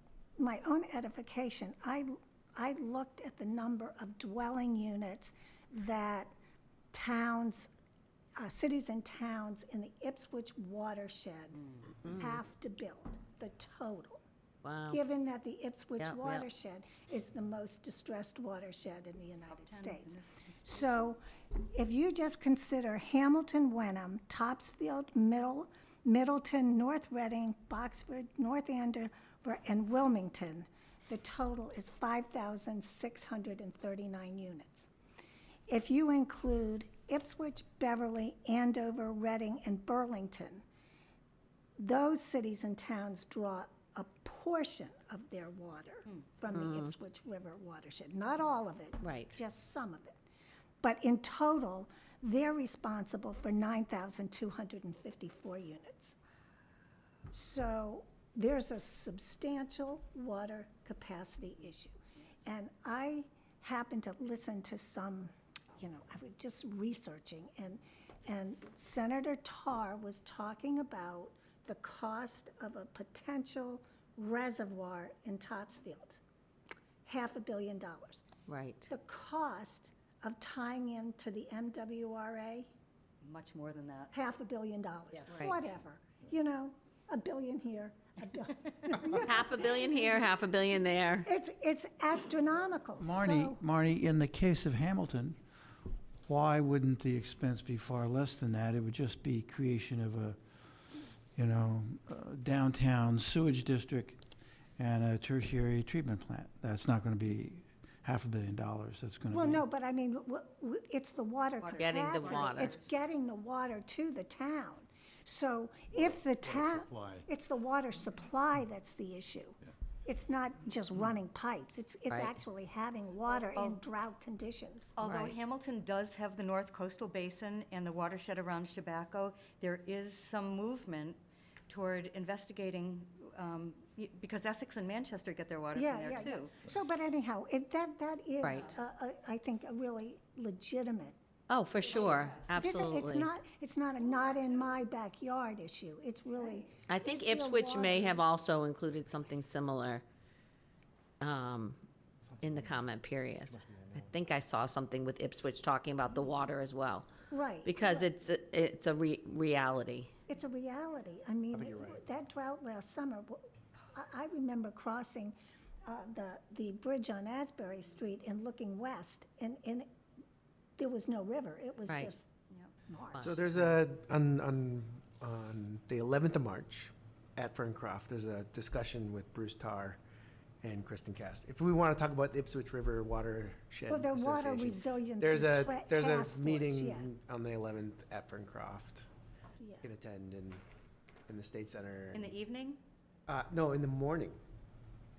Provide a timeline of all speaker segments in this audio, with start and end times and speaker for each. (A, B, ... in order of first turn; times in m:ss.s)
0:00.4-0:06.3 A
0:06.9-0:07.7 A
0:08.4-0:14.2 A
0:12.0-0:12.4 B
0:14.6-0:15.0 B
0:14.9-0:34.9 A
0:16.0-0:16.4 B
0:19.5-0:21.0 C
0:35.7-0:40.6 A
0:41.8-0:50.2 A
0:46.5-0:46.9 B
0:49.0-0:49.3 B
0:50.8-0:56.2 A
0:57.3-1:01.9 A
1:02.4-1:16.2 A
1:17.0-1:18.2 A
1:18.5-1:18.9 B
1:18.9-1:22.7 A
1:23.2-1:24.1 C
1:24.1-1:30.2 A
1:25.3-1:25.5 B
1:29.2-1:31.3 B
1:31.2-1:33.6 A
1:33.0-1:35.4 D
1:36.2-1:40.4 D
1:41.4-1:44.2 D
1:44.8-1:49.6 D
1:49.3-2:05.0 A
1:51.6-1:53.0 C
1:51.8-1:52.7 B
1:56.5-1:57.2 D
2:02.1-2:02.4 B
2:03.3-2:03.8 C
2:05.0-2:16.6 C
2:05.0-2:05.4 B
2:15.7-2:21.2 A
2:21.5-2:23.3 B
2:21.9-2:28.2 A
2:22.0-2:22.8 C
2:26.9-2:30.0 B
2:31.2-2:31.8 B
2:32.2-2:32.7 E
2:32.4-2:37.1 B
2:33.5-2:34.2 E
2:37.3-2:38.1 A
2:37.6-2:40.1 B
2:40.3-2:49.9 A
2:41.5-2:42.0 E
2:50.8-2:52.3 A
2:52.9-2:53.2 A
2:53.1-2:53.5 B
2:53.2-3:00.0 E
3:00.6-3:09.0 E
3:03.9-3:07.1 A
3:09.6-3:09.8 A
3:09.8-3:10.6 E
3:11.3-3:12.3 E
3:12.1-3:12.8 C
3:13.3-3:14.4 E